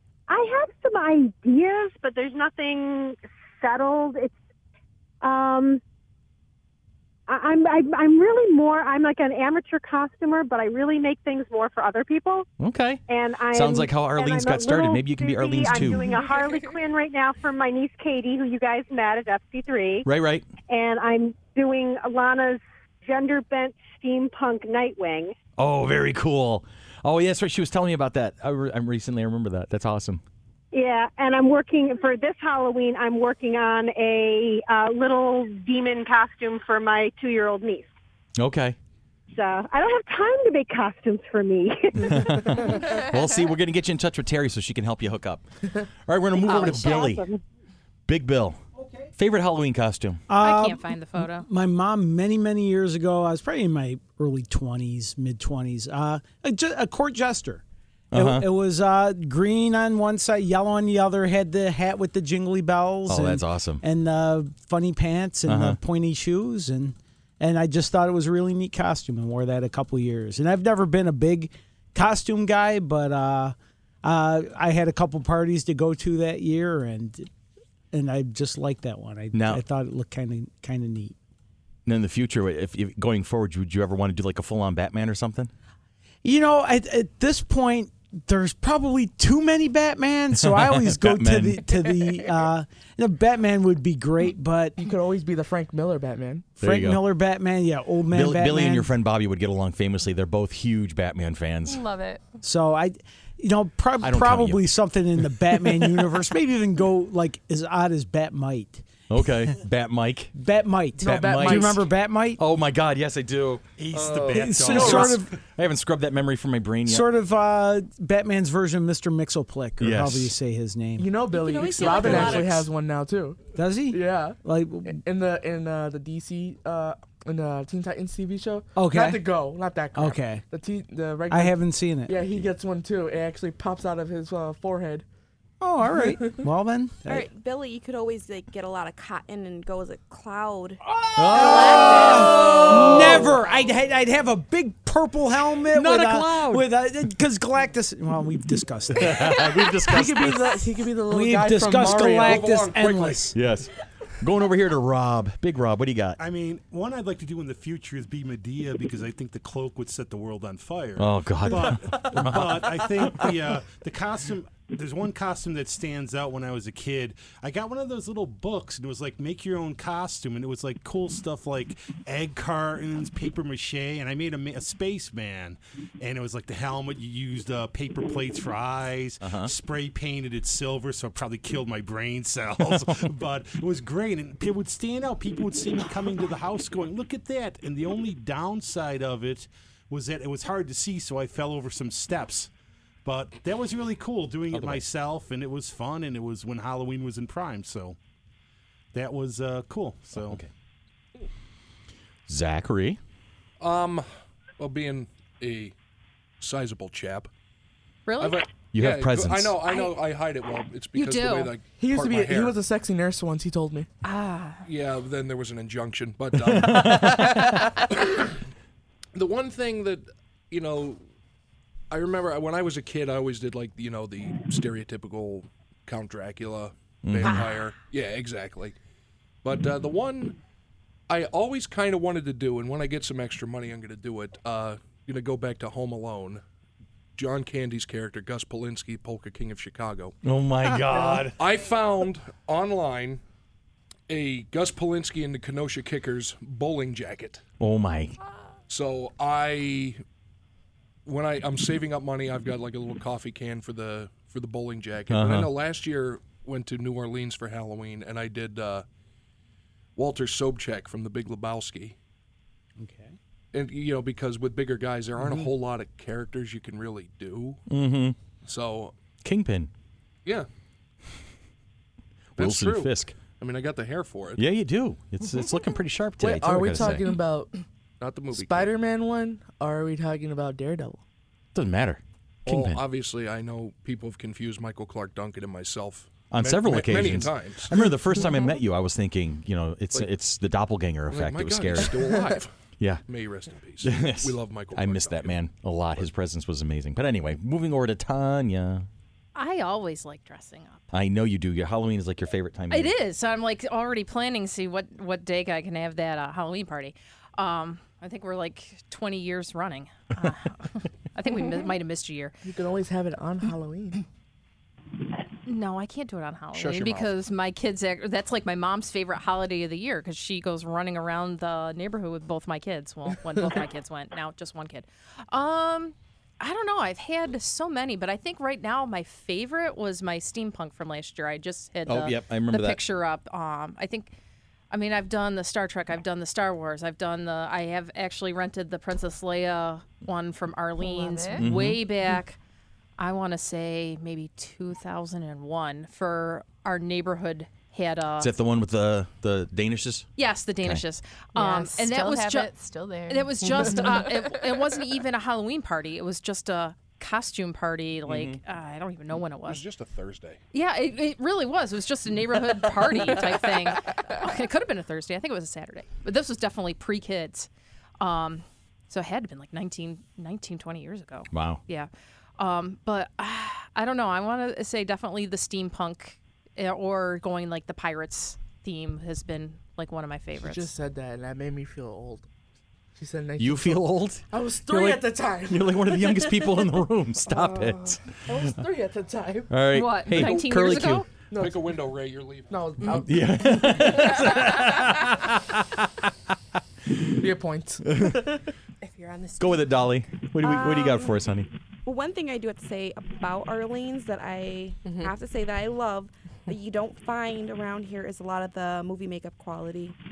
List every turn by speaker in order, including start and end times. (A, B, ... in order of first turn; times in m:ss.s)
0:00.3-0:04.3 A
0:05.2-0:05.8 A
0:07.3-0:12.5 A
0:12.6-0:13.0 B
0:13.1-0:20.0 A
0:13.5-0:16.2 B
0:20.0-0:20.5 B
0:20.7-0:25.3 A
0:25.6-0:30.2 B
0:30.7-0:37.9 A
0:38.4-0:38.8 B
0:39.3-0:43.0 A
0:42.0-0:47.2 B
0:46.3-0:47.4 A
0:48.1-0:48.6 B
0:49.2-0:50.2 B
0:50.3-0:57.6 C
0:50.4-0:51.5 D
0:58.1-0:58.5 B
0:58.1-1:17.3 C
1:03.1-1:03.8 B
1:05.5-1:05.8 B
1:17.9-1:21.1 C
1:19.3-1:19.6 B
1:21.8-1:25.5 B
1:26.2-1:34.8 C
1:30.4-1:31.7 B
1:34.8-1:36.5 E
1:36.6-1:38.9 C
1:36.6-1:37.0 B
1:38.1-1:41.8 B
1:41.7-1:42.2 F
1:42.4-1:49.5 C
1:44.0-1:44.6 B
1:45.5-1:46.1 B
1:49.1-1:50.3 B
1:50.3-1:52.4 C
1:51.0-1:51.8 E
1:51.0-1:51.8 B
1:52.4-1:57.1 B
1:53.8-1:55.2 G
1:54.3-1:55.3 C
1:54.7-1:55.1 E
1:56.8-2:01.1 C
1:59.8-2:00.3 B
2:01.0-2:15.0 E
2:01.4-2:02.5 D
2:03.5-2:05.0 C
2:08.8-2:09.2 C
2:10.0-2:10.4 C
2:11.3-2:12.2 C
2:15.6-2:17.2 C
2:17.0-2:23.2 H
2:20.9-2:30.3 C
2:21.2-2:23.4 B
2:25.7-2:26.7 B
2:28.9-2:30.5 B
2:29.8-2:32.6 E
2:31.1-2:33.3 C
2:31.9-2:33.3 I
2:33.3-2:36.2 B
2:36.2-3:12.5 G
2:41.0-2:43.3 B
2:59.2-2:59.5 B
3:02.7-3:03.0 B
3:13.0-3:18.0 G
3:14.5-3:14.8 B
3:18.9-3:20.4 G
3:20.1-3:20.5 B
3:22.3-3:23.0 B
3:23.6-3:24.1 I
3:24.6-3:25.7 I
3:26.4-3:27.3 I
3:28.0-3:28.4 D
3:28.2-3:32.6 I
3:28.7-3:29.6 B
3:29.6-3:29.9 D
3:30.9-3:31.5 D
3:31.8-3:33.9 E
3:34.0-3:34.6 D
3:34.6-3:38.3 I
3:36.4-3:37.5 B
3:39.1-3:41.0 I
3:41.9-3:48.8 I
3:47.0-3:47.5 B
3:49.4-3:50.4 I
3:51.1-3:56.4 I
3:57.2-4:00.1 I
4:00.2-4:01.4 B
4:01.3-4:03.2 I
4:04.1-4:07.4 I
4:07.6-4:08.2 B
4:08.7-4:10.0 I
4:11.0-4:18.8 I
4:15.1-4:15.5 B
4:20.0-4:22.0 I
4:22.8-4:23.2 C
4:23.5-4:27.6 I
4:27.7-4:28.2 B
4:28.4-4:28.9 I
4:29.2-4:29.7 B
4:32.4-4:33.2 B
4:32.4-4:34.4 I
4:34.4-4:37.1 B
4:36.2-4:37.6 E
4:38.0-4:38.7 I
4:38.3-4:41.0 E
4:41.5-4:42.8 B
4:42.4-4:47.9 I
4:46.3-4:52.2 B
4:51.1-4:52.5 I
4:52.8-4:53.0 B
4:53.1-4:55.4 I
4:53.8-4:58.9 B
4:59.3-5:00.8 D
5:00.9-5:02.9 B
5:02.7-5:12.3 D
5:12.4-5:14.0 E
5:15.4-5:34.1 D
5:16.5-5:17.1 I
5:31.8-5:32.8 B
5:34.7-5:42.4 D
5:40.8-5:41.4 F
5:41.4-5:41.8 B
5:43.0-5:48.3 D
5:48.2-5:50.1 B
5:50.2-5:52.5 D
5:51.3-5:54.1 F
5:53.1-5:59.6 D
5:58.1-5:58.4 B
5:59.4-6:00.4 I
6:00.5-6:07.5 D
6:08.0-6:20.7 D
6:11.3-6:11.6 B
6:20.4-6:22.3 E
6:23.0-6:29.6 E
6:23.4-6:28.2 B
6:29.5-6:31.0 B
6:29.7-6:31.1 D
6:30.2-6:30.8 I
6:31.3-6:31.8 E
6:31.4-6:32.7 I
6:32.5-6:34.2 E
6:32.9-6:36.0 B
6:37.2-6:38.4 E
6:37.8-6:38.3 B
6:38.8-6:39.7 F
6:39.4-6:41.5 B
6:40.4-6:41.2 H
6:41.8-6:50.0 H
6:44.8-6:45.1 F